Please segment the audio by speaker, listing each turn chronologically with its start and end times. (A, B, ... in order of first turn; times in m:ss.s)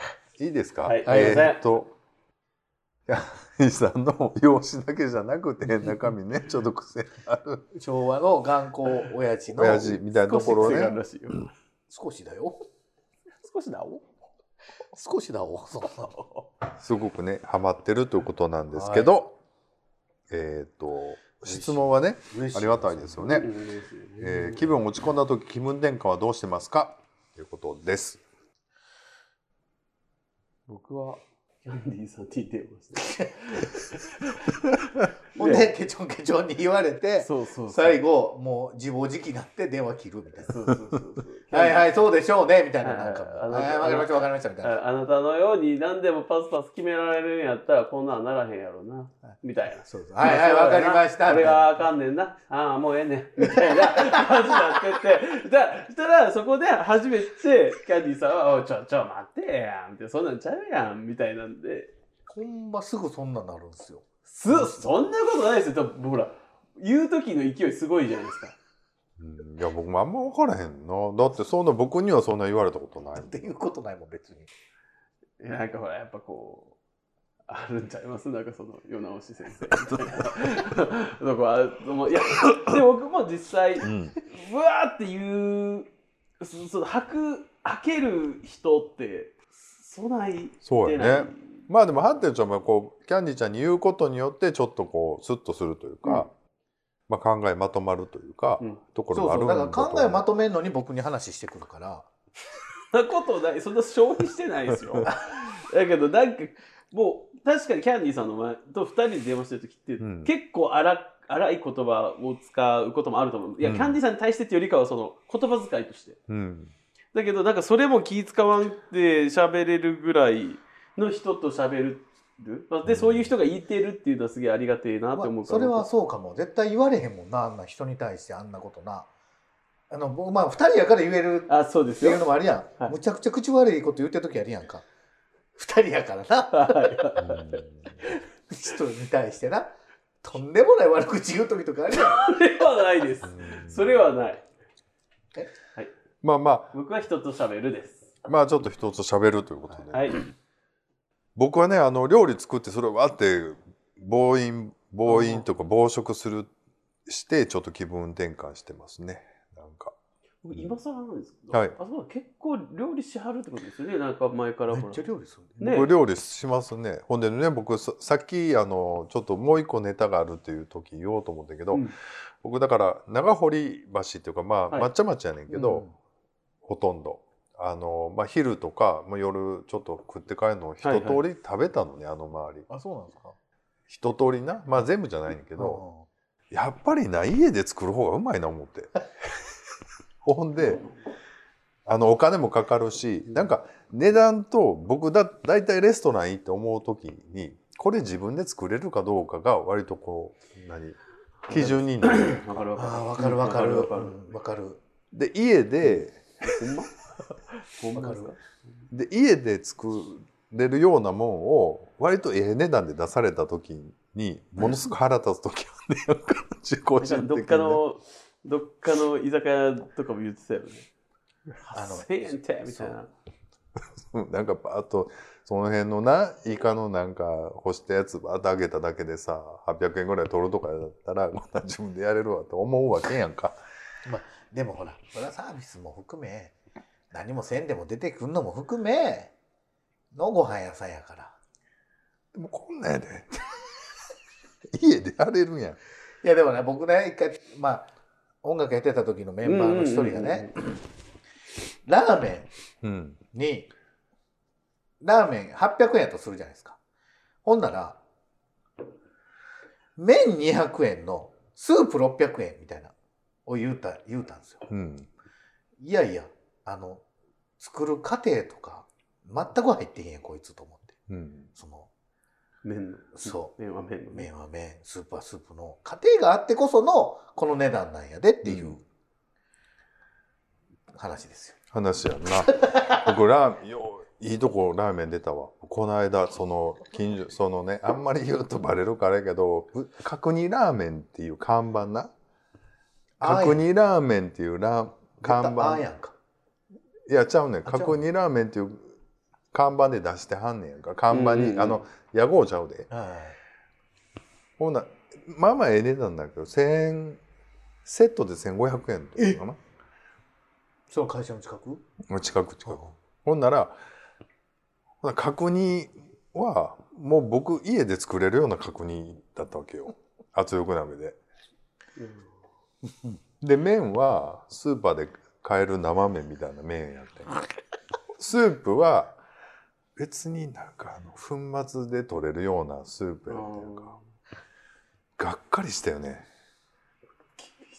0:00.4-0:01.9 A
0:00.9-0:01.6 B
0:01.1-0:01.5 C
0:03.1-0:07.6 A
0:07.7-0:10.9 C
0:09.5-0:11.0 A
0:10.2-0:11.5 B
0:11.9-0:12.6 C
0:13.4-0:14.1 B
0:14.9-0:16.2 C
0:16.8-0:19.4 A
0:18.7-0:19.2 C
0:20.3-0:23.5 A
0:21.4-0:23.3 C
0:23.2-0:24.8 B
0:24.2-0:28.2 A
0:30.7-0:34.8 B
0:35.4-0:35.7 B
0:35.4-0:40.6 C
0:37.2-0:38.0 B
0:40.4-0:41.9 B
0:41.5-0:44.8 C
0:42.8-1:01.9 B
0:49.9-0:51.9 C
0:53.6-0:54.2 C
1:02.3-1:04.8 C
1:04.3-1:08.6 B
1:09.2-1:13.5 A
1:13.2-1:14.5 C
1:15.4-1:16.8 B
1:17.5-1:25.9 B
1:23.8-1:24.2 A
1:26.4-1:31.6 B
1:30.6-1:36.3 A
1:37.1-1:40.3 A
1:39.1-1:42.1 C
1:42.9-1:56.2 B
1:50.0-1:50.3 A
1:53.6-1:54.0 A
1:56.3-1:56.7 A
1:57.1-2:05.9 B
2:02.9-2:03.3 A
2:05.2-2:09.1 C
2:09.9-2:14.9 C
2:11.5-2:12.2 B
2:15.6-2:17.1 C
2:16.5-2:17.5 B
2:17.2-2:18.0 A
2:18.5-2:22.3 C
2:21.9-2:24.4 B
2:23.2-2:24.0 A
2:26.2-2:26.7 A
2:26.7-2:28.1 B
2:28.3-2:30.2 A
2:29.9-2:30.2 B
2:31.4-2:36.5 A
2:35.1-2:35.4 B
2:37.1-2:40.0 A
2:40.4-2:45.0 B
2:44.7-2:45.6 C
2:45.6-2:45.9 B
2:45.6-2:55.9 A
2:55.5-2:55.9 C
2:56.6-3:02.7 A
3:00.8-3:01.2 B
3:02.7-3:03.4 C
3:03.9-3:05.8 A
3:05.6-3:06.1 C
3:06.5-3:09.0 A
3:10.2-3:10.9 A
3:11.9-3:22.4 A
3:21.5-3:24.2 B
3:22.8-3:24.8 C
3:25.1-3:26.6 A
3:26.5-3:28.4 B
3:27.9-3:28.3 C
3:28.9-3:37.8 A
3:37.0-3:40.9 B
3:41.6-3:43.1 B
3:41.7-3:43.0 C
3:44.0-3:53.6 A
3:54.0-3:56.6 C
3:57.1-3:59.3 C
4:00.1-4:01.4 C
4:02.3-4:03.6 A
4:04.7-4:05.8 A
4:06.2-4:07.9 C
4:08.4-4:10.6 C
4:09.4-4:10.6 B
4:11.8-4:12.5 C
4:12.8-4:13.2 A
4:13.3-4:13.7 C
4:15.0-4:16.8 C
4:17.4-4:18.0 C
4:20.0-4:22.9 C
4:23.5-4:24.7 C
4:24.7-4:25.1 A
4:25.8-4:27.0 C
4:27.6-4:31.0 C
4:31.1-4:31.5 A
4:31.6-4:31.9 C
4:32.6-4:34.3 B
4:33.2-4:33.5 C
4:34.1-4:38.8 C
4:38.4-4:38.8 A
4:40.9-4:41.6 C
4:41.7-4:52.1 A
4:42.5-4:43.1 C
4:53.2-4:53.6 C
4:53.2-4:55.8 A
4:55.2-4:56.2 C
4:57.1-4:59.0 A
4:57.6-4:58.0 C
4:59.5-5:02.9 A
5:01.1-5:01.8 B
5:02.9-5:03.4 C
5:04.6-5:07.2 A
5:07.8-5:09.6 A
5:10.9-5:11.8 C
5:12.1-5:13.8 A
5:12.7-5:12.9 C
5:15.0-5:21.2 A
5:22.0-5:22.3 B
5:23.4-5:27.4 A
5:28.2-5:29.2 A
5:30.0-5:34.0 A
5:33.3-5:34.0 B
5:35.2-5:36.3 A